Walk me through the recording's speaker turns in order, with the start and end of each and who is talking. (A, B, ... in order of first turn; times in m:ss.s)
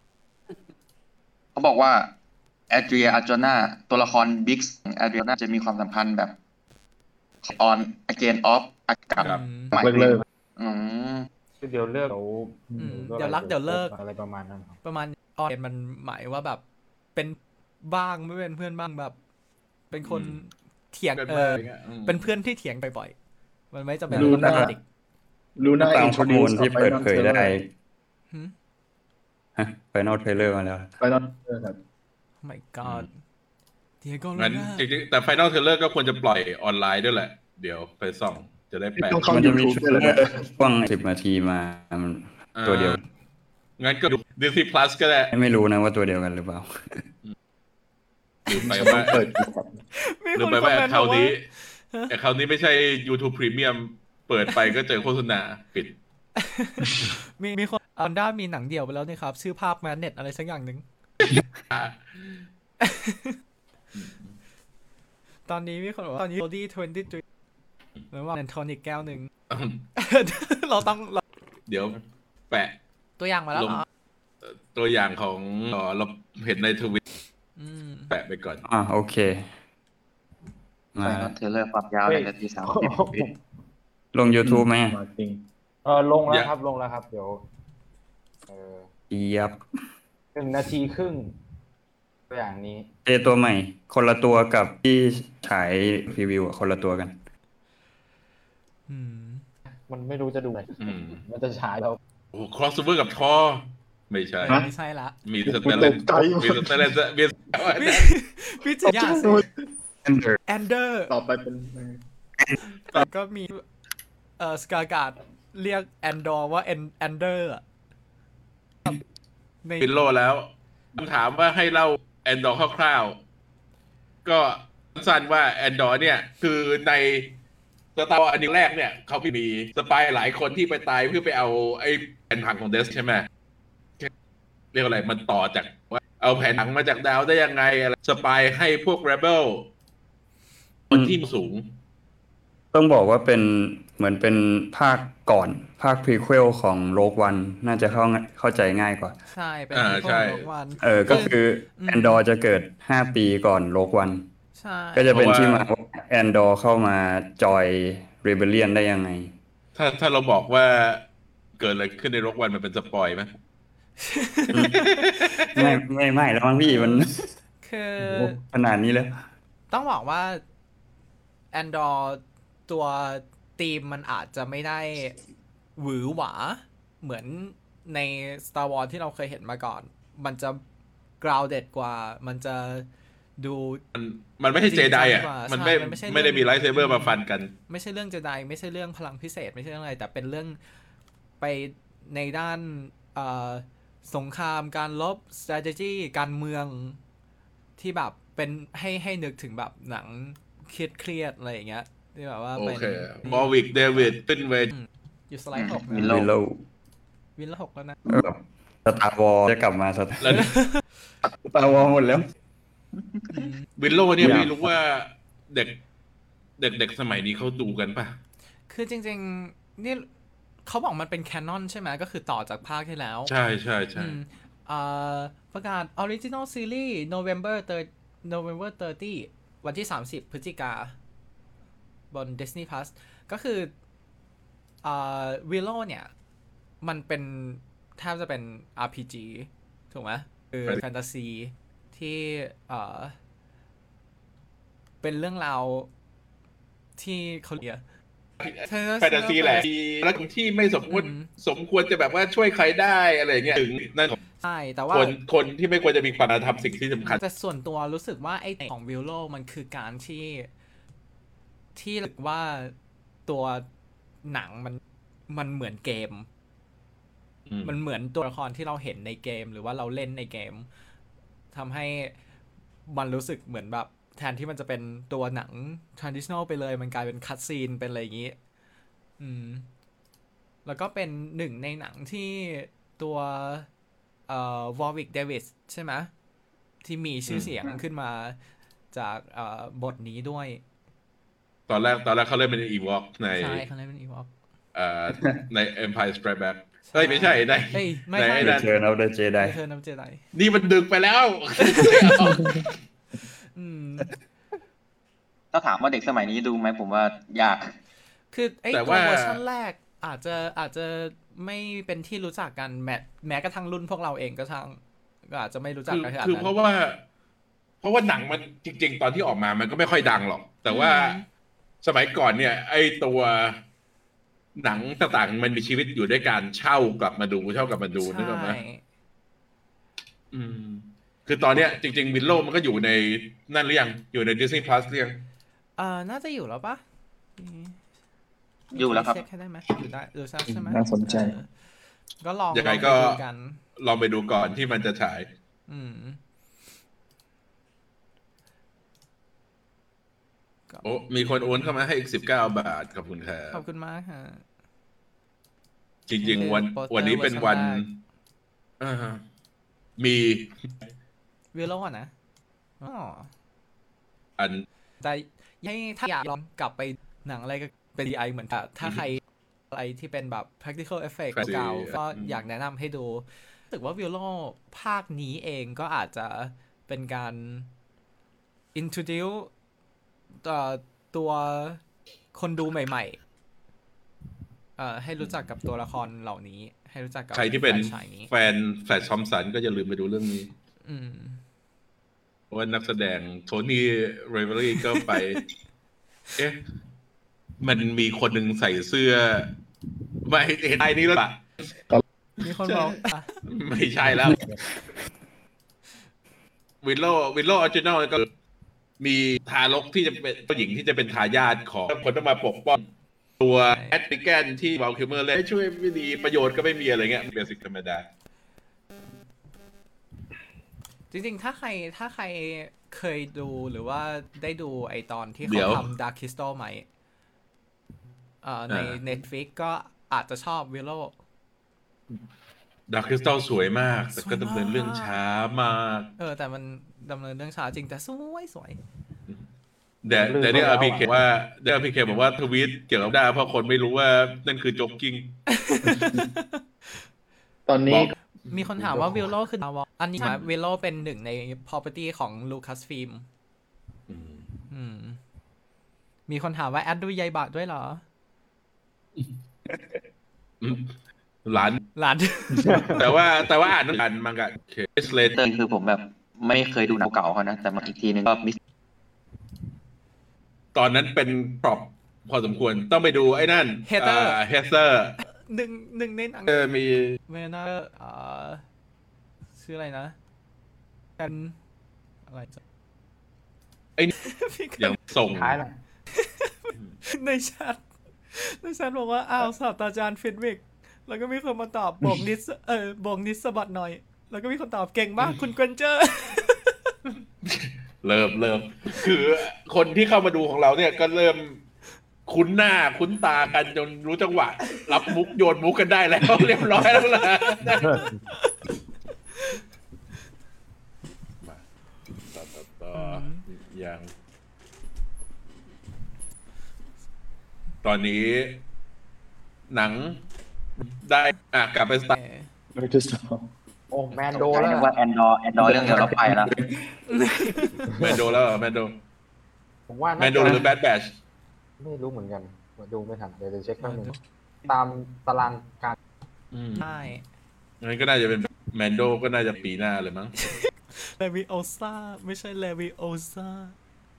0:01.5-0:02.1 A
0:02.7-0:06.3 A
0:07.4-0:11.3 A
0:09.2-0:09.4 B
0:09.2-0:09.7 C
0:09.7-0:10.2 D
0:11.6-0:14.8 E
0:12.8-0:13.9 C
0:14.8-0:16.6 C
0:17.1-0:19.1 C
0:19.9-0:23.1 C
0:20.0-0:20.4 B
0:21.2-0:22.3 B
0:23.7-0:24.8 C
0:24.1-0:24.7 D
0:24.1-0:24.7 F
0:25.6-0:27.5 D
0:25.8-0:27.7 F
0:29.6-0:30.9 F
0:31.0-0:31.8 D
0:32.4-0:33.1 C
0:32.8-0:33.1 B
0:34.0-0:34.8 C
0:34.4-0:39.3 B
0:39.0-0:40.4 D
0:39.2-0:43.0 F
0:42.6-0:43.0 B
0:43.8-0:45.3 B
0:45.3-0:47.0 F
0:48.5-0:49.2 B
0:48.5-0:49.7 D
0:49.9-0:51.3 C
0:50.3-0:51.4 B
0:52.1-0:55.9 B
0:56.4-1:00.8 C
1:01.2-1:02.4 B
1:02.8-1:03.4 C
1:03.9-1:04.3 B
1:05.5-1:07.2 C
1:08.1-1:09.3 C
1:09.5-1:09.8 B
1:10.0-1:11.2 C
1:11.7-1:12.8 B
1:13.2-1:13.8 C
1:13.5-1:13.8 B
1:14.4-1:17.0 B
1:17.6-1:18.1 C
1:18.1-1:18.6 B
1:18.6-1:19.5 F
1:21.0-1:21.3 F
1:21.0-1:23.0 A
1:22.0-1:23.3 E
1:24.1-1:25.0 F
1:24.4-1:25.4 D
1:25.8-1:27.4 E
1:28.5-1:28.9 E
1:29.1-1:29.6 F
1:30.3-1:31.3 E
1:32.3-1:32.9 E
1:33.0-1:37.2 F
1:38.9-1:39.4 C
1:39.9-1:42.0 E
1:40.8-1:41.2 B
1:42.3-1:44.6 B
1:44.4-1:45.2 C
1:45.2-1:48.1 B
1:45.4-1:46.9 D
1:47.7-1:49.4 C
1:48.8-1:49.5 D
1:50.0-1:50.4 F
1:50.5-1:51.1 C
1:51.1-1:52.0 D
1:52.7-1:53.6 C
1:54.4-1:57.6 C
1:59.6-1:59.9 C
1:59.8-2:03.2 B
2:04.2-2:07.3 B
2:08.0-2:13.3 B
2:14.7-2:19.7 B
2:20.9-2:21.7 B
2:22.7-2:29.2 F
2:29.3-2:32.2 C
2:29.7-2:30.5 B
2:30.8-2:34.2 F
2:34.6-2:35.2 C
2:34.9-2:39.3 F
2:35.1-2:35.6 B
2:39.7-2:41.0 B
2:41.6-2:43.3 B
2:44.0-2:45.8 C
2:44.7-2:45.3 B
2:45.5-2:47.2 F
2:46.6-2:47.1 C
2:47.6-2:48.4 C
2:48.1-2:49.2 F
2:49.7-2:50.4 C
2:51.5-2:55.2 C
2:55.8-3:00.6 C
3:01.2-3:02.9 C
3:03.4-3:03.8 C
3:03.9-3:07.5 B
3:04.6-3:10.6 C
3:11.4-3:17.0 C
3:17.8-3:24.1 C
3:22.6-3:24.7 B
3:24.7-3:26.1 C
3:25.5-3:26.3 A
3:26.0-3:26.6 F
3:27.4-3:28.0 C
3:28.0-3:30.4 F
3:30.2-3:30.5 B
3:30.4-3:30.8 C
3:31.2-3:32.2 F
3:33.3-3:33.6 C
3:33.8-3:35.8 B
3:34.2-3:34.7 F
3:36.6-3:38.2 B
3:38.7-3:40.0 C
3:40.6-3:43.3 C
3:43.3-3:44.2 B
3:44.0-3:50.9 C
3:52.1-3:53.7 C
3:54.8-3:56.1 C
3:56.8-4:03.2 C
4:05.0-4:05.9 C
4:07.0-4:07.8 C
4:08.4-4:14.2 B
4:08.6-4:09.7 C
4:10.9-4:11.3 C
4:14.4-4:15.1 C
4:14.9-4:17.2 B
4:17.0-4:20.5 C
4:21.7-4:22.7 C
4:23.3-4:23.6 C
4:24.2-4:26.3 C
4:27.5-4:27.7 B
4:27.6-4:30.7 C
4:31.5-4:32.1 C
4:32.9-4:38.4 C
4:39.2-4:39.6 C
4:40.6-4:43.7 C
4:44.3-4:46.1 C
4:46.8-4:48.4 C
4:47.3-4:47.5 B
4:48.9-4:50.6 C
4:51.7-4:53.6 B
4:53.3-4:54.3 C
4:54.7-4:58.7 B
4:56.9-4:58.6 C
4:58.4-4:59.6 F
4:59.4-5:00.2 C
5:00.3-5:02.7 B
5:01.6-5:02.4 C
5:03.5-5:04.1 C
5:05.5-5:07.7 A
5:08.3-5:16.5 C
5:08.7-5:09.4 B
5:15.9-5:17.0 B
5:17.8-5:21.2 B
5:20.7-5:21.2 C
5:21.8-5:23.6 B
5:24.6-5:28.6 B
5:28.0-5:28.8 C
5:30.3-5:35.2 B
5:35.8-5:36.8 C
5:37.4-5:37.8 C
5:38.7-5:39.2 A
5:38.7-5:41.5 C
5:40.4-5:41.4 D
5:42.2-5:43.6 C
5:42.5-5:43.2 B
5:43.8-5:45.3 B
5:45.7-5:46.2 C
5:50.7-5:51.0 C
5:50.8-5:53.6 B
5:53.5-5:54.4 C
5:56.1-5:57.9 B
5:56.2-5:57.8 C
5:58.8-5:59.2 B
6:00.0-6:00.7 B
6:01.5-6:02.1 C
6:02.8-6:03.3 C
6:04.4-6:04.6 B
6:05.0-6:17.7 C
6:11.3-6:12.4 B
6:18.7-6:19.5 C
6:20.4-6:21.8 C
6:22.3-6:23.2 C
6:24.8-6:28.3 C
6:27.3-6:30.5 B
6:30.8-6:31.4 C
6:32.5-6:35.4 B
6:34.8-6:35.4 C
6:37.6-6:39.5 B
6:40.2-6:41.4 B
6:42.4-6:43.4 C
6:42.4-6:44.4 B
6:46.8-6:48.3 B
6:49.0-6:52.8 B
6:53.4-6:58.0 B
6:53.7-6:54.0 C
7:01.1-7:06.8 C
7:05.4-7:05.8 B
7:08.4-7:11.1 C
7:08.7-7:09.0 B
7:12.9-7:16.1 B
7:14.2-7:15.2 C
7:16.2-7:18.8 C
7:20.0-7:25.4 B
7:20.1-7:21.2 E
7:25.5-7:27.0 C
7:25.9-7:26.3 D
7:27.7-7:28.1 D
7:28.5-7:33.2 C
7:28.8-7:29.3 D
7:34.1-7:34.5 B
7:34.7-7:35.2 C
7:36.3-7:38.0 C
7:40.6-7:40.9 B
7:41.4-7:41.8 B
7:42.0-7:42.9 C
7:42.7-7:43.0 E
7:43.0-7:45.4 B
7:45.3-7:48.6 A
7:50.7-7:55.2 B
7:53.9-7:54.4 C
7:55.2-7:56.5 C
7:56.5-7:57.2 B
7:57.3-7:58.6 C
7:59.6-8:00.1 C
8:01.2-8:01.6 C
8:02.3-8:02.6 C
8:04.2-8:05.0 C
8:04.8-8:05.6 B
8:05.3-8:05.7 E
8:06.1-8:07.8 C
8:08.3-8:16.8 C
8:17.4-8:21.6 B
8:22.3-8:28.0 B
8:27.8-8:28.2 E
8:28.3-8:28.6 C
8:32.3-8:34.1 B
8:32.9-8:33.4 C
8:37.8-8:38.6 B
8:39.7-8:40.2 B
8:40.8-8:42.2 B
8:42.1-8:42.5 C
8:42.8-8:43.5 D
8:43.9-8:44.9 E
8:44.3-8:46.5 A
8:45.6-8:46.4 D
8:47.1-8:47.9 C
8:48.0-8:49.0 B
8:49.9-8:50.6 E
8:50.2-8:51.2 B
8:51.8-8:54.1 E
8:53.8-8:54.2 C
8:54.7-8:56.0 E
8:56.5-8:56.8 B
8:56.8-8:57.2 C
8:57.8-9:00.5 B
9:00.4-9:03.7 C